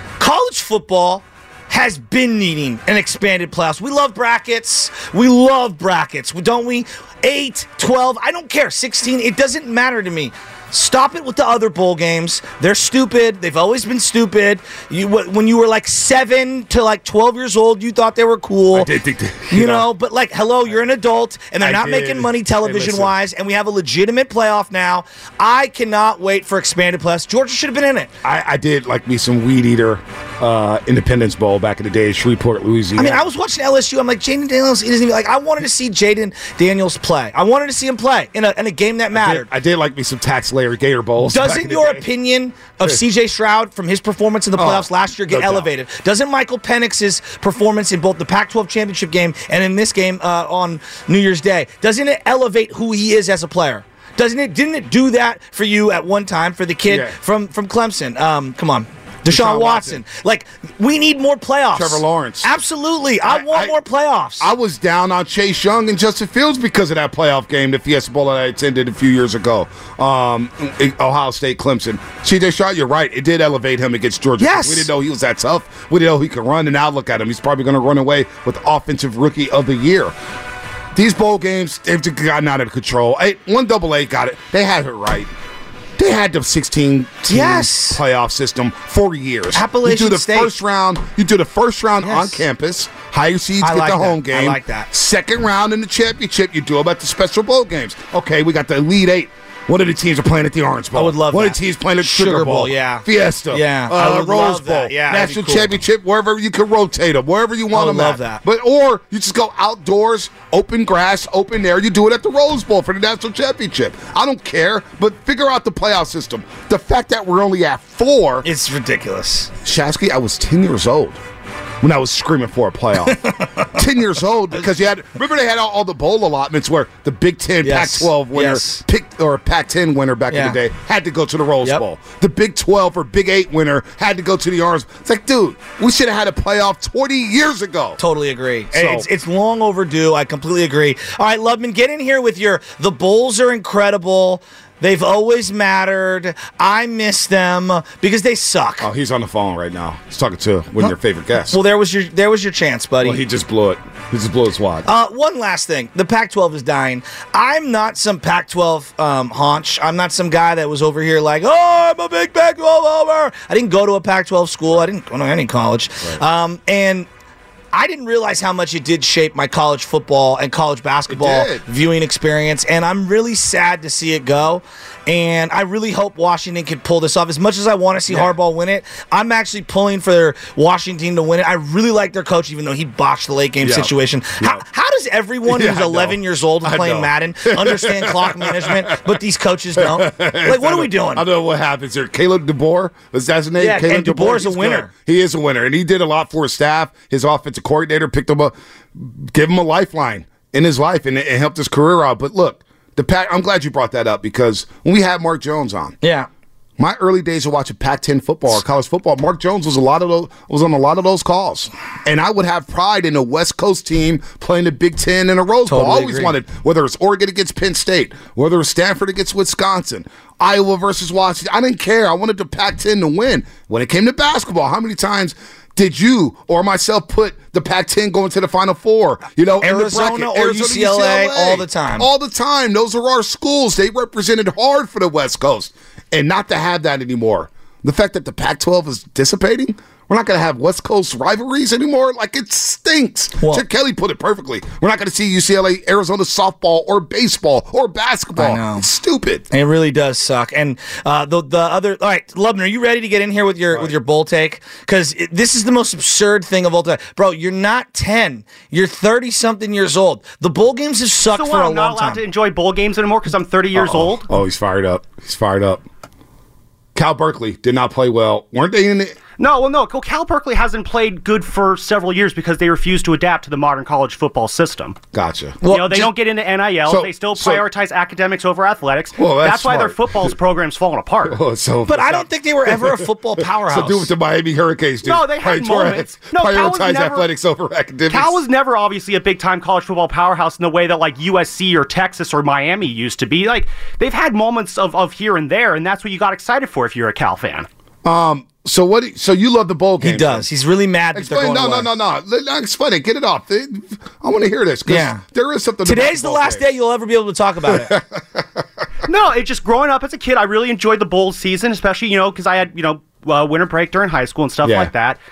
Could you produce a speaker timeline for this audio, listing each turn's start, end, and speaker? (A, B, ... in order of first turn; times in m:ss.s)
0:00.2-0:18.9 A
0:18.7-0:19.9 B
0:19.5-0:28.1 A
0:21.6-0:23.1 B
0:28.2-0:33.2 B
0:33.0-0:39.5 A
0:39.1-0:42.1 B
0:41.3-1:04.5 A
0:44.6-0:45.7 B
0:56.9-0:57.2 B
0:59.2-1:00.0 B
1:01.7-1:02.5 B
1:03.2-1:03.8 B
1:04.4-1:20.1 B
1:14.4-1:14.9 A
1:20.9-1:25.3 B
1:26.0-1:58.4 B
1:27.3-1:28.0 A
1:29.5-1:30.5 A
1:32.0-1:32.4 A
1:33.6-1:34.9 A
1:40.9-1:45.7 A
1:47.7-1:48.4 A
1:58.4-1:59.5 A
1:59.6-2:01.2 B
2:01.8-2:18.0 B
2:03.0-2:03.8 A
2:07.6-2:08.8 A
2:10.3-2:10.6 A
2:18.0-2:28.9 A
2:18.7-2:19.1 B
2:28.8-2:31.6 B
2:31.5-2:33.2 A
2:33.0-2:34.9 B
2:34.8-2:47.1 A
2:47.7-3:11.2 A
2:51.1-2:51.6 B
2:58.1-2:58.4 B
3:03.6-3:04.6 B
3:05.4-3:09.2 B
3:09.8-3:26.0 B
3:13.6-3:14.9 A
3:26.0-3:26.3 A
3:26.8-4:09.4 B
3:35.7-3:36.3 A
3:49.6-3:52.1 A
4:08.4-4:08.9 A
4:09.5-4:22.2 A
4:21.3-4:24.3 C
4:23.7-4:25.8 B
4:26.9-4:29.2 B
4:29.4-4:35.0 C
4:35.1-4:36.1 B
4:35.6-4:36.1 A
4:35.6-4:41.4 C
4:36.8-4:37.6 B
4:39.2-4:40.3 B
4:41.3-4:48.4 B
4:41.9-4:44.1 A
4:45.0-4:47.3 C
4:48.1-4:57.7 C
4:58.0-5:00.5 B
5:00.0-5:01.9 A
5:01.1-5:06.7 B
5:04.9-5:05.2 A
5:05.8-5:07.9 A
5:07.6-5:08.8 B
5:09.1-5:15.2 C
5:14.6-5:14.9 B